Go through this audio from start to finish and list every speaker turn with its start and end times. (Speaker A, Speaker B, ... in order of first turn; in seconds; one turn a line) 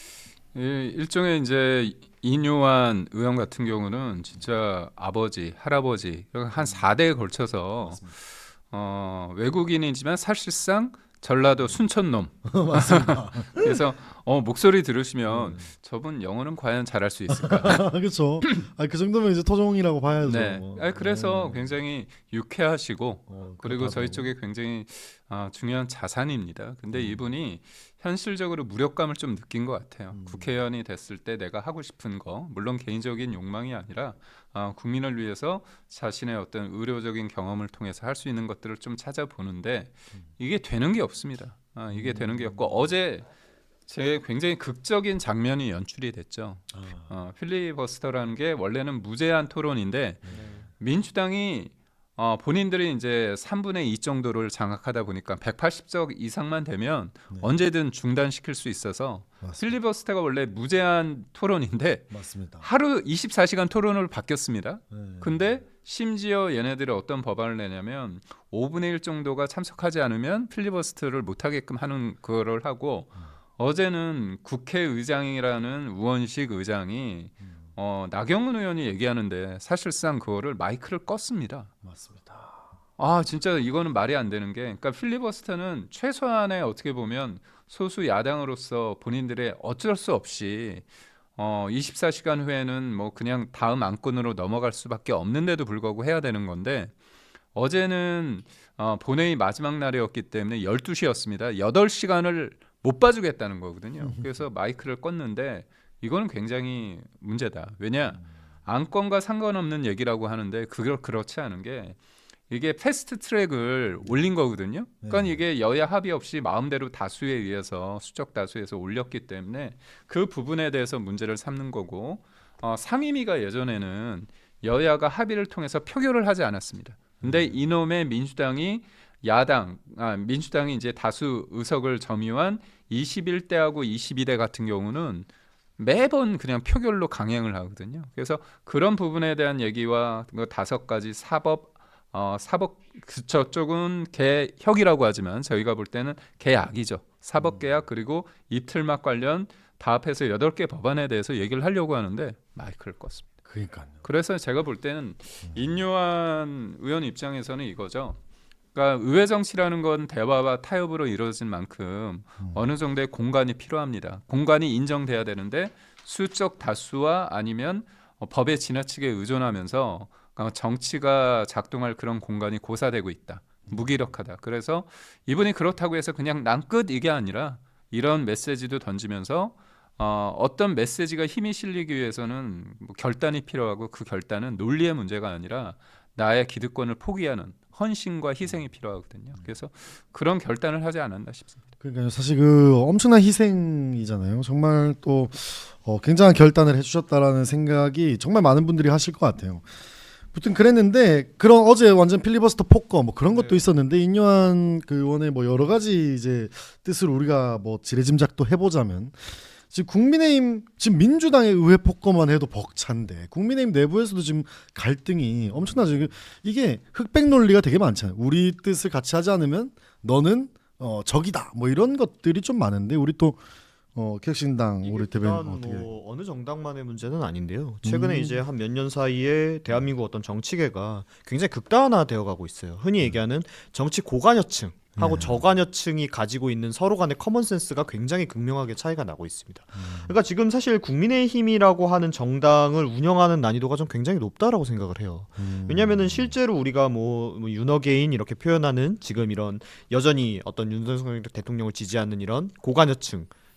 Speaker A: 0.5-18.4
Speaker B: 6.5-6.9
Speaker B: 7.8-8.1
Speaker B: 12.4-13.7
Speaker B: 15.3-15.7
Speaker B: 17.3-21.8
Speaker A: 20.2-43.2
Speaker B: 23.3-24.3
Speaker B: 26.9-27.3
Speaker B: 30.1-30.5
Speaker B: 41.9-42.9
Speaker A: 43.9-81.7
Speaker B: 46.7-47.1
Speaker B: 50.2-50.7
Speaker B: 59.4-59.7
Speaker B: 62.1-62.7
Speaker B: 64.9-65.5
Speaker B: 77.4-77.7
Speaker B: 81.8-82.8
Speaker A: 83.0-96.9
Speaker A: 97.5-112.0
Speaker B: 104.0-104.4
Speaker A: 112.5-153.3
Speaker B: 115.0-115.4
Speaker B: 127.2-127.6
Speaker B: 147.4-147.7
Speaker B: 153.4-154.0
Speaker A: 154.0-158.2
Speaker B: 155.4-155.8
Speaker A: 158.7-191.6
Speaker B: 191.8-199.7
Speaker B: 200.3-223.4
Speaker C: 203.3-203.7
Speaker B: 223.9-225.9
Speaker C: 224.8-253.3
Speaker B: 227.8-228.4
Speaker B: 234.9-235.4
Speaker B: 239.8-240.1
Speaker B: 245.4-246.3